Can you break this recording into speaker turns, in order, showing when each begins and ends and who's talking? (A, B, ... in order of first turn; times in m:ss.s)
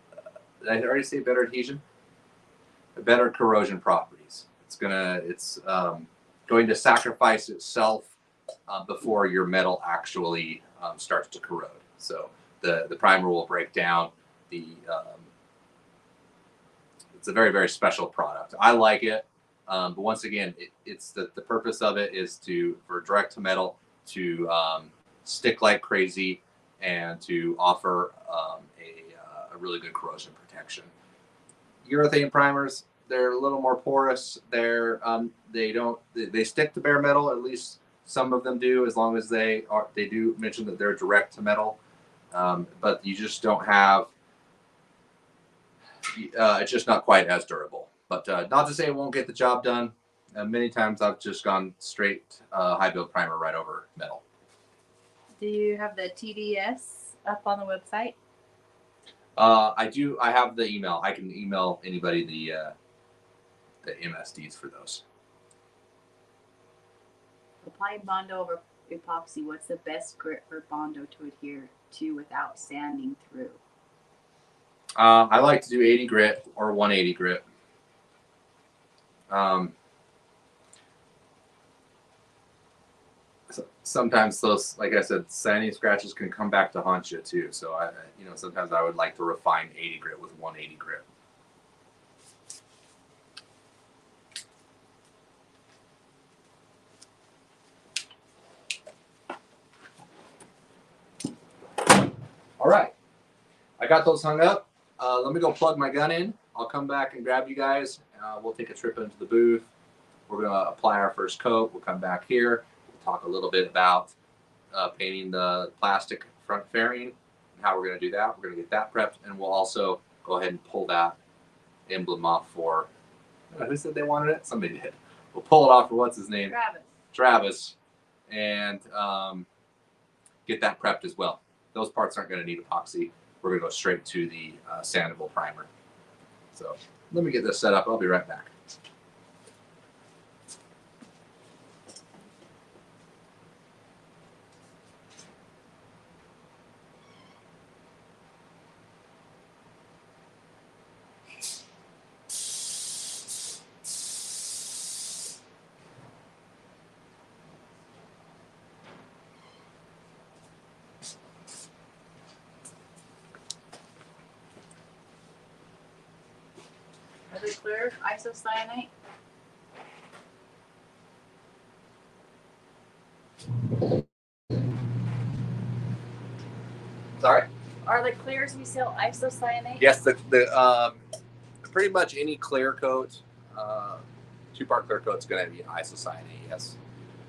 0:00.6-0:01.8 A
0:02.9-0:08.1 A
0:08.7-0:15.3 A
0:17.1-0:30.9 A
0:31.8-0:41.8 A
0:42.3-0:44.1 A
0:46.1-0:54.2 A
0:55.4-0:58.2 B
0:59.4-1:02.7 A
1:03.8-1:05.0 A
1:07.6-1:13.6 B
1:15.0-1:17.4 A
1:19.3-1:19.7 A
1:23.5-1:31.0 A
1:42.6-1:42.9 A
1:43.8-1:49.7 A
1:50.3-1:54.1 A
1:54.7-2:01.2 A
2:01.9-2:02.9 A
2:03.5-2:06.5 A
2:06.5-2:06.9 B
2:07.1-2:07.7 A
2:08.3-2:09.5 A
2:10.4-2:15.7 A
2:16.5-2:18.5 A
2:47.3-2:48.9 B
2:57.2-2:57.5 A
2:57.8-2:59.8 B
2:59.8-3:01.0 A
3:01.6-3:06.8 A